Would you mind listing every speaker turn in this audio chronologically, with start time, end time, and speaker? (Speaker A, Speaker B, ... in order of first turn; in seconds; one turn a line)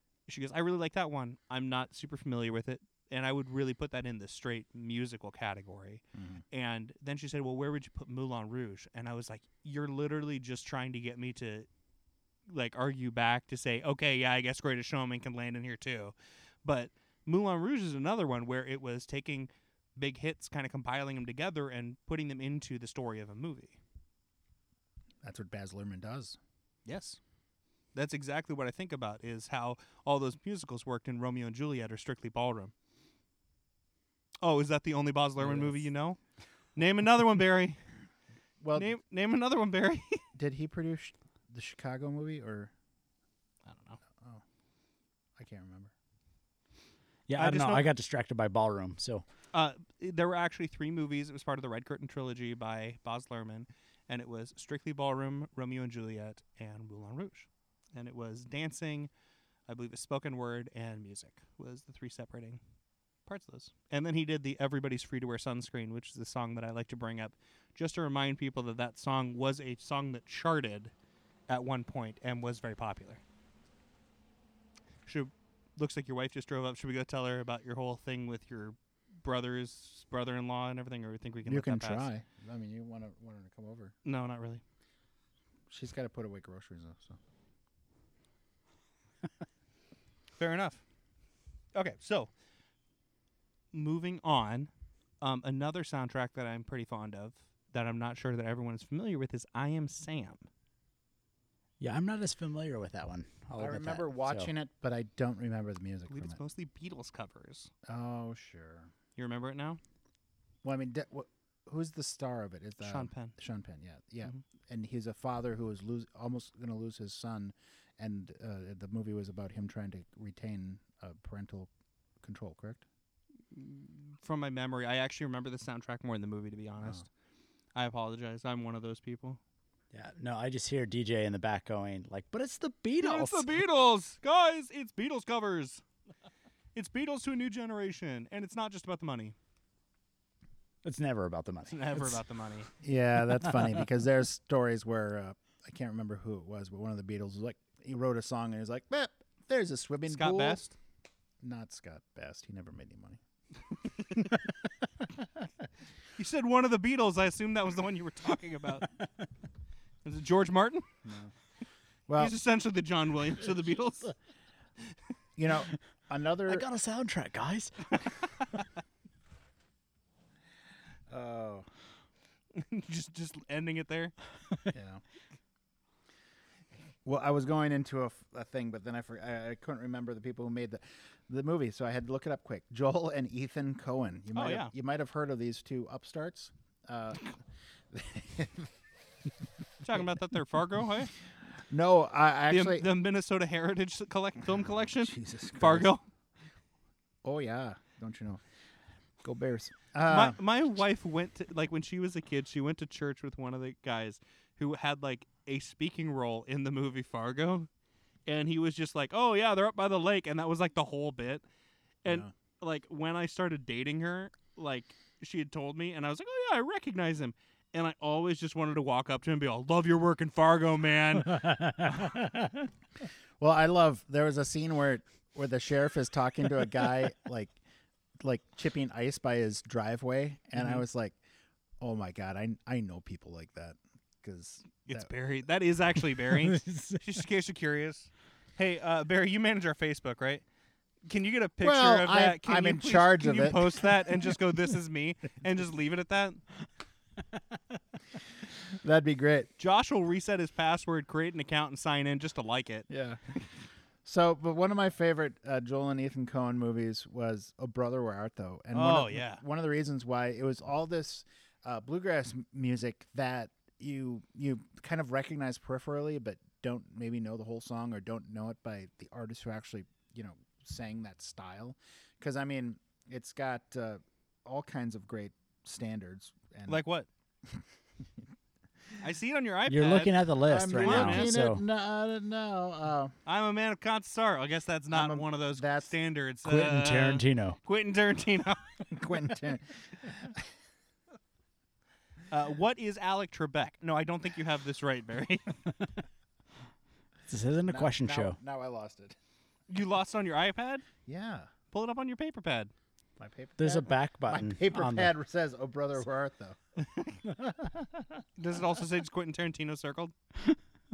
Speaker A: 0.3-11.7
Speaker B: 6.1-6.4
Speaker A: 12.5-23.8
Speaker B: 25.2-26.4
Speaker A: 26.9-27.2
Speaker A: 27.9-32.7
Speaker A: 34.4-36.2
Speaker B: 35.4-35.9
Speaker A: 36.7-37.8
Speaker B: 38.6-38.9
Speaker A: 38.7-40.2
Speaker B: 40.4-42.7
Speaker A: 43.7-44.0
Speaker B: 45.4-45.9
Speaker C: 47.3-49.2
Speaker A: 47.4-47.8
Speaker A: 49.5-59.1
Speaker A: 59.7-62.6
Speaker A: 63.2-70.9
Speaker A: 71.5-73.2
Speaker A: 75.0-82.1
Speaker B: 81.5-83.9
Speaker A: 84.0-84.6
Speaker B: 85.7-87.2
Speaker A: 90.4-90.8
Speaker A: 91.7-92.3
Speaker A: 93.7-100.5
Speaker C: 101.8-104.5
Speaker B: 103.6-106.4
Speaker A: 106.1-107.7
Speaker B: 107.8-108.9
Speaker A: 109.2-109.8
Speaker B: 110.6-121.7
Speaker A: 112.8-113.3
Speaker B: 122.2-122.8
Speaker A: 123.5-127.0
Speaker A: 127.7-129.4
Speaker C: 129.9-133.5
Speaker A: 133.0-135.8
Speaker A: 136.7-139.3
Speaker C: 140.8-142.2
Speaker A: 141.7-142.7
Speaker B: 142.8-150.7
Speaker C: 143.5-143.8
Speaker A: 150.1-150.7
Speaker B: 151.4-153.2
Speaker A: 156.2-158.9
Speaker A: 160.0-160.9
Speaker B: 161.0-161.3
Speaker B: 162.1-162.3
Speaker A: 162.2-164.1
Speaker B: 165.4-166.7
Speaker C: 166.5-167.8
Speaker B: 171.1-171.7
Speaker A: 172.5-174.1
Speaker B: 174.7-175.0
Speaker B: 177.0-187.4
Speaker A: 184.3-184.7
Speaker B: 187.9-188.7
Speaker A: 189.8-191.1
Speaker B: 191.7-192.8
Speaker A: 192.5-196.0
Speaker B: 195.0-195.9
Speaker B: 197.2-198.4
Speaker B: 199.2-200.4
Speaker A: 200.0-207.7
Speaker A: 208.3-211.4
Speaker A: 212.0-221.6
Speaker C: 221.4-222.5
Speaker B: 223.4-227.5
Speaker B: 228.2-231.2
Speaker A: 230.6-230.8
Speaker B: 231.8-235.1
Speaker A: 234.9-240.4
Speaker C: 236.4-237.0
Speaker A: 241.1-246.4
Speaker B: 241.6-243.9
Speaker B: 248.8-249.5
Speaker A: 249.6-252.8
Speaker B: 252.9-253.4
Speaker B: 254.0-276.8
Speaker A: 258.7-259.4
Speaker A: 276.7-277.1
Speaker A: 279.0-281.3
Speaker C: 279.7-281.6
Speaker B: 280.4-283.1
Speaker A: 283.2-288.9
Speaker B: 284.9-285.9
Speaker C: 286.4-287.6
Speaker B: 288.9-290.4
Speaker A: 292.3-295.5
Speaker C: 297.3-298.4
Speaker B: 297.7-299.1
Speaker A: 299.7-300.9
Speaker B: 301.1-301.5
Speaker A: 301.7-302.7
Speaker B: 303.2-306.6
Speaker C: 303.6-305.1
Speaker A: 308.4-310.1